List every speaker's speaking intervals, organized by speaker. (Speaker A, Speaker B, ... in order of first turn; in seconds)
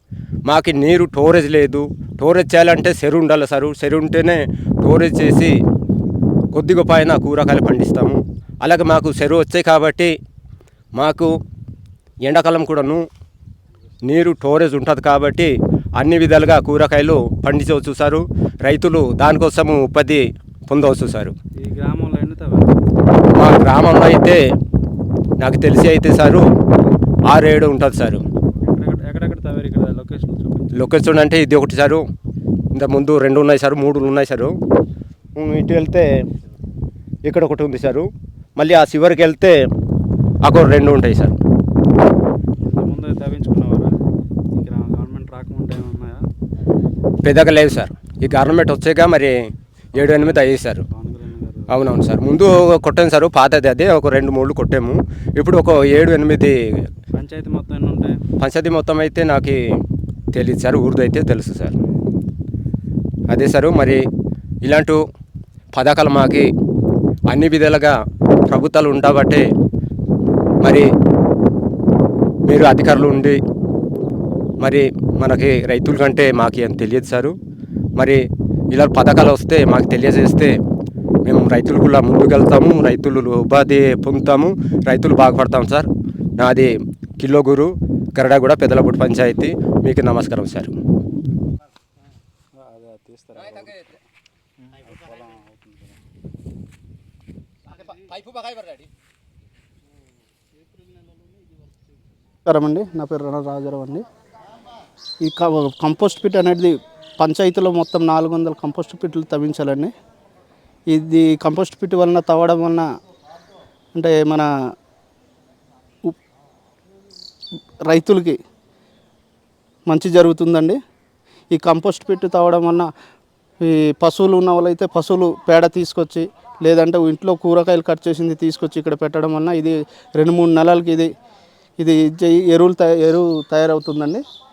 Speaker A: 0.5-5.5, 6.5-10.1, 10.9-11.3, 12.2-13.0, 14.0-21.3, 23.3-24.4, 25.4-26.4, 27.3-28.2, 30.7-32.0, 32.7-34.5, 35.4-36.0, 37.2-39.5, 40.4-41.4, 47.2-49.3, 49.9-50.8, 51.7-56.8, 58.4-59.6, 60.3-61.7, 63.3-64.0, 64.6-65.0, 65.7-66.5, 67.3-67.9, 68.5-69.4, 70.6-70.9, 72.5-73.4, 74.6-77.3, 78.0-80.5, 81.2-90.7, 97.9-98.8
Speaker B: 21.6-22.9, 28.5-30.7, 42.6-43.9, 44.5-46.2, 49.9-51.9, 57.1-58.2, 92.5-94.0, 94.8-96.0
Speaker C: 102.4-104.0, 105.2-109.9, 110.9-112.8, 113.9-114.5, 117.9-118.4, 119.9-120.8, 121.5-122.9, 123.6-131.1, 131.8-134.2